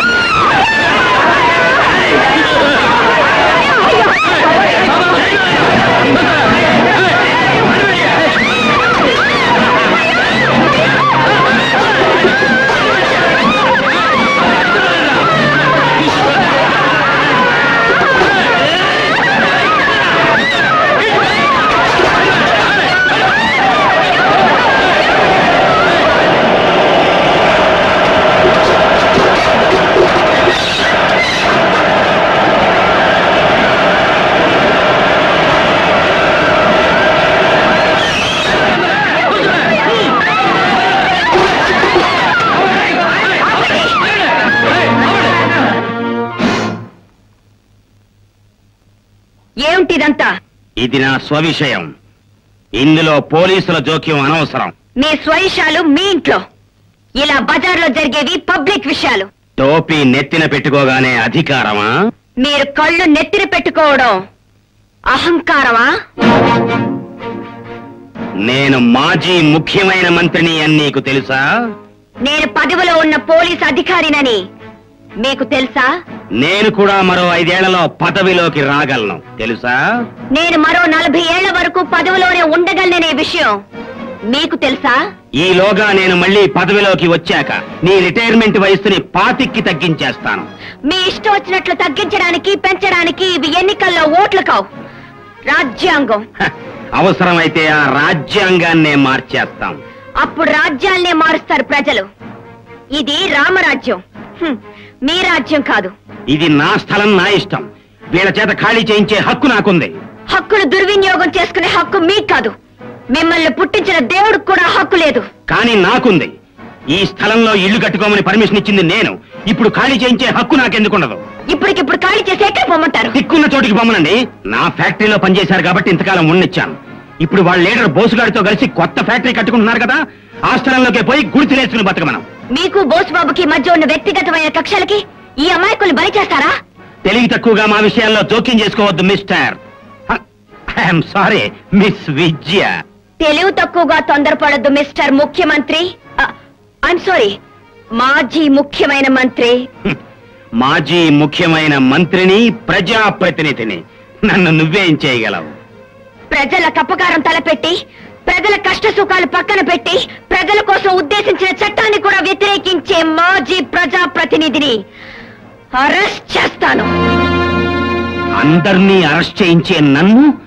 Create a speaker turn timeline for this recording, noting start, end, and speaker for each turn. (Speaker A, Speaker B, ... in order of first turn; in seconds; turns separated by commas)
Speaker A: 49.6-50.3, Speaker B: 50.8-51.9, Speaker B: 52.8-54.7, Speaker A: 55.0-56.4, Speaker A: 57.2-59.3, Speaker B: 59.6-61.9, Speaker A: 62.4-64.2, Speaker A: 65.1-65.9, Speaker B: 68.5-71.4, Speaker A: 72.2-74.4, Speaker A: 75.2-75.9, Speaker B: 76.4-79.8, Speaker A: 80.3-83.6, Speaker A: 84.3-85.0, Speaker B: 85.4-90.5, Speaker A: 90.9-94.7, Speaker A: 95.5-96.2, Speaker B: 96.4-99.8, Speaker A: 100.2-102.1, Speaker A: 102.9-105.9, Speaker B: 106.3-110.0, Speaker A: 110.3-112.5, Speaker A: 113.1-115.3, Speaker B: 115.5-116.3, Speaker B: 117.0-121.2, Speaker A: 121.5-123.2, Speaker B: 123.1-130.0, Speaker B: 130.5-132.2, Speaker A: 132.5-136.5, Speaker B: 137.1-140.2, Speaker B: 140.8-142.7, Speaker A: 143.2-146.3, Speaker A: 146.8-147.4, Speaker A: 148.0-149.6, Speaker B: 150.6-155.5, Speaker A: 156.3-164.8, Speaker A: 165.7-166.9, Speaker B: 168.4-170.3